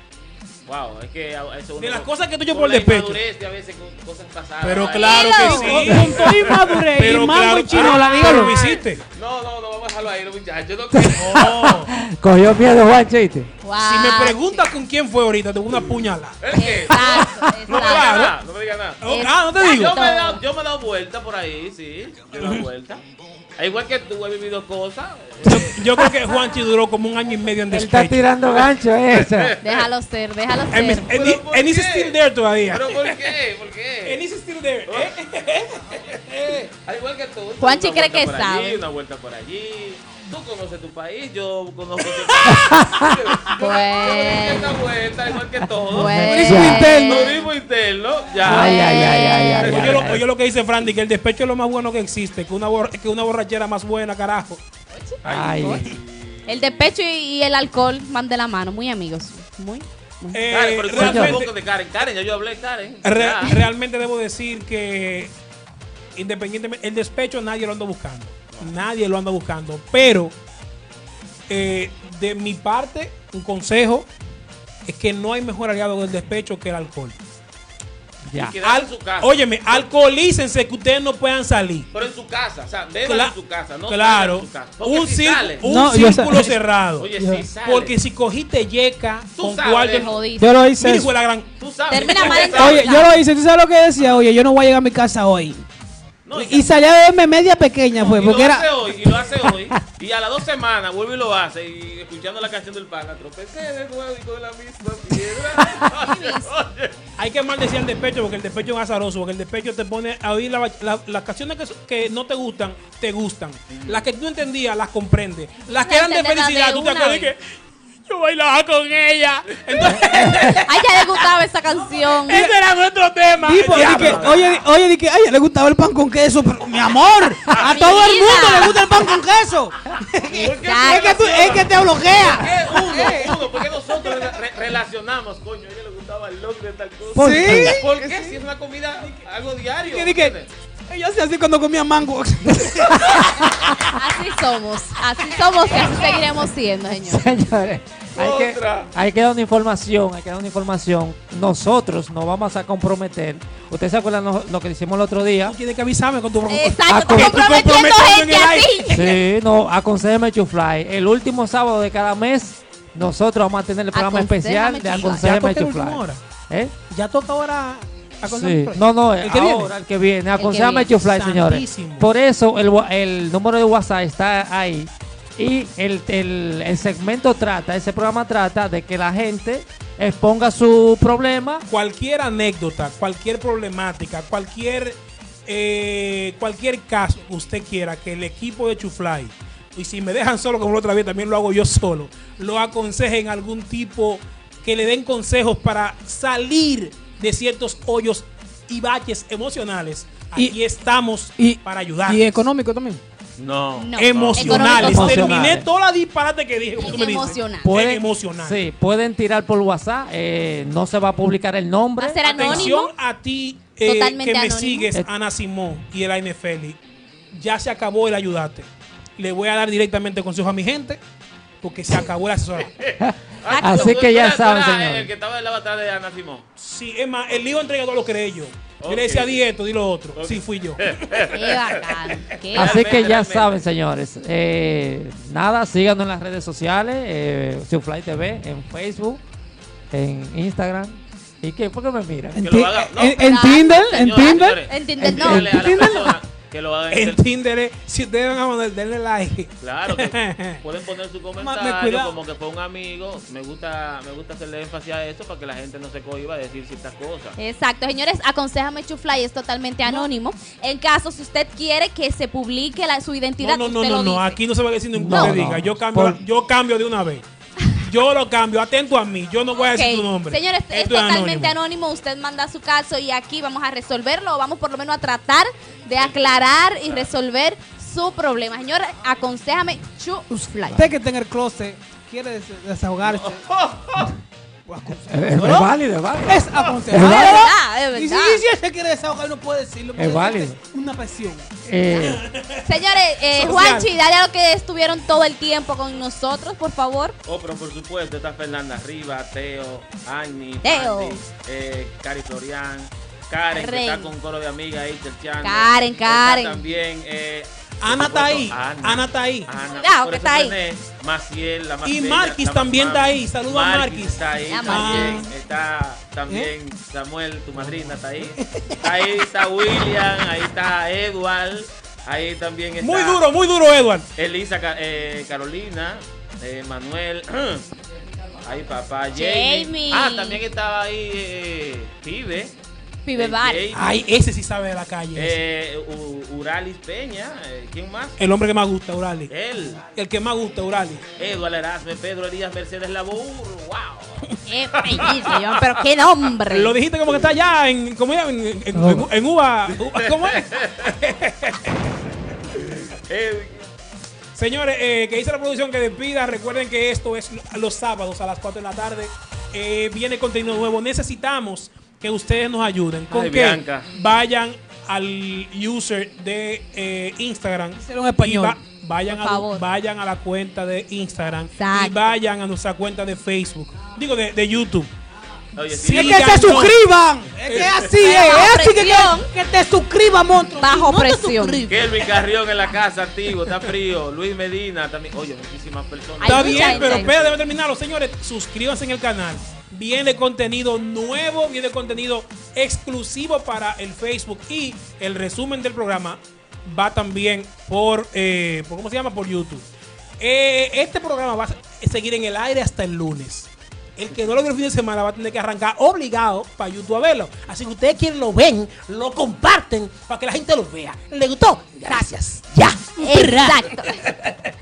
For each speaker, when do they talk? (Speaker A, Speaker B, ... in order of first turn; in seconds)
Speaker A: 0.7-6.4, 7.7-11.9, 16.4-19.0, 19.6-23.0, 23.6-26.0, 28.5-29.9, 31.0-32.2, 32.7-34.2, 34.9-35.1, 36.1-50.2, 55.2-56.9, 60.5-63.7, 78.3-79.3, 81.9-85.6, 87.0-88.0, 89.4-90.1, 91.6-93.0, 96.2-96.7, 98.0-107.0, 113.7-114.0, 123.7-124.4, 127.5-128.4, 130.3-140.5, 148.2-148.9, 203.4-204.9, 222.6-226.5, 228.8-229.4, 230.2-233.6, 242.4-247.2, 249.6-257.4, 283.0-284.1, 297.3-323.2, 324.2-327.7, 328.4-332.6, 333.1-334.0, 335.1-338.2, 339.3-339.8, 341.2-345.4, 349.7-350.9, 352.6-353.6, 363.1-363.9, 375.6-376.5, 381.7-387.4
Speaker B: 1.8-3.2, 4.6-9.0, 11.2-11.9, 13.8-18.4, 19.0-20.0, 22.4-22.6, 25.4-28.3, 30.7-33.3, 34.0-36.7, 42.3-42.6, 49.6-54.6, 60.3-61.5, 63.0-65.3, 66.2-70.3, 71.5-74.1, 74.9-77.2, 78.6-81.9, 83.1-83.3, 83.9-91.5, 107.2-117.4, 118.1-121.3, 122.2-124.5, 155.4-159.2, 165.0-166.2, 166.9-169.7, 170.9-172.1, 181.7-202.5, 204.0-208.6, 212.3-216.8, 217.3-221.0, 221.6-222.8, 226.6-231.3, 246.9-250.6, 263.4-267.2, 267.8-271.6, 292.0-292.7, 293.3-293.9, 307.8-309.5, 311.9-315.2, 318.2-318.9, 322.8-324.1, 333.7-335.4, 338.2-339.3, 339.8-341.0, 346.5-351.9, 354.3-374.9, 375.7-376.8, 377.4-377.8, 386.2-399.7, 400.2-412.2
Speaker C: 4.8-5.9, 13.6-14.7, 16.5-18.3, 19.1-20.4, 29.6-31.1, 37.6-38.8, 43.6-44.8, 45.9-47.5, 48.4-49.8, 54.9-55.8, 56.5-60.4, 89.9-90.5, 91.9-93.2, 105.8-106.5, 115.7-117.3, 120.5-122.5, 127.6-128.8, 130.5-131.1, 143.9-147.3, 156.5-159.0, 163.9-165.3, 170.4-170.9, 203.8-205.4, 206.8-208.0, 212.0-212.9, 213.8-214.9, 231.3-233.0, 243.2-245.9, 257.4-264.4, 265.1-265.4, 269.6-280.8, 286.9-288.4, 292.6-297.2, 300.6-301.2, 303.5-304.1, 305.4-306.6, 309.7-310.6, 314.5-315.3, 329.1-330.4, 333.1-333.6, 344.5-346.8, 369.1-369.6, 371.6-372.0, 378.0-379.3, 380.6-381.7, 386.2-387.1, 411.8-412.1, 413.0-414.1
Speaker D: 5.1-8.6, 46.4-46.8, 85.6-86.6, 87.2-87.5, 90.4-91.1, 92.2-95.6, 96.3-98.7, 122.3-122.6, 123.4-134.3, 137.2-138.4, 139.9-140.4, 140.9-143.4, 201.4-203.0, 242.3-244.6, 245.3-246.2, 251.4-252.1, 280.7-283.4, 284.7-285.7, 286.2-291.5, 367.8-368.6, 375.8-382.1, 411.9-413.8
Speaker E: 10.9-13.5, 27.7-29.6, 42.5-43.1, 45.9-47.3, 48.4-50.2, 55.2-55.9, 60.9-61.4, 78.3-78.6, 137.1-137.8, 142.9-143.8, 146.9-155.6, 156.9-157.6, 158.9-166.7, 168.2-181.7, 204.6-205.7, 208.4-212.7, 223.0-225.1, 232.5-239.2, 239.9-242.7, 245.0-245.8, 264.9-266.2, 285.1-287.5, 290.0-290.6, 291.7-292.2, 348.7-349.1